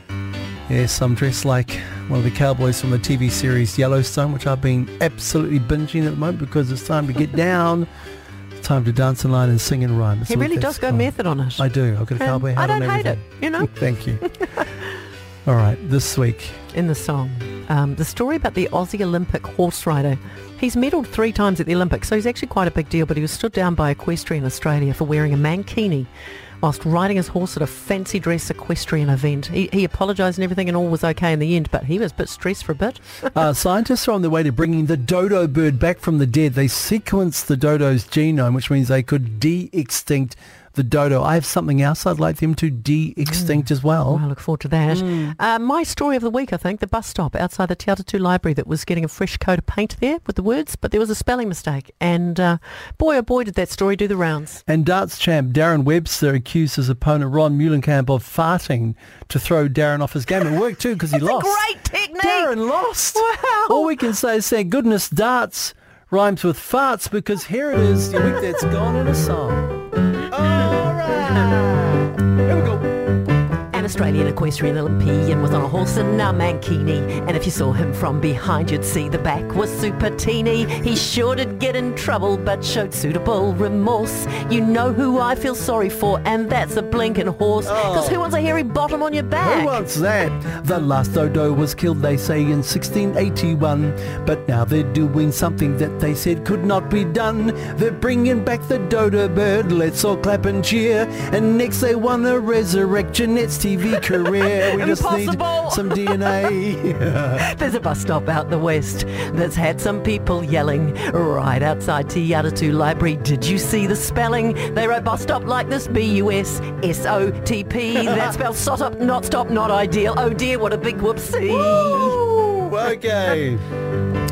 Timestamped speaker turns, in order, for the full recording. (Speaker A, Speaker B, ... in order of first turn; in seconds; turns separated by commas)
Speaker A: 0.7-7.9, Speaker A: 8.6-14.2, Speaker B: 10.3-11.6, Speaker B: 12.2-13.7, Speaker B: 14.2-14.9, Speaker A: 15.4-16.6, Speaker B: 16.7-26.1, Speaker B: 26.6-33.3, Speaker A: 33.3-44.2, Speaker B: 43.3-54.6, Speaker A: 44.9-45.4, Speaker A: 54.7-61.6, Speaker B: 61.1-62.5, Speaker A: 62.2-69.7, Speaker B: 63.1-64.0, Speaker A: 70.3-72.9, Speaker B: 73.7-89.8, Speaker A: 87.6-88.2, Speaker A: 89.4-107.4, Speaker B: 104.0-106.5, Speaker B: 107.3-122.2, Speaker A: 118.0-118.3, Speaker A: 121.5-123.6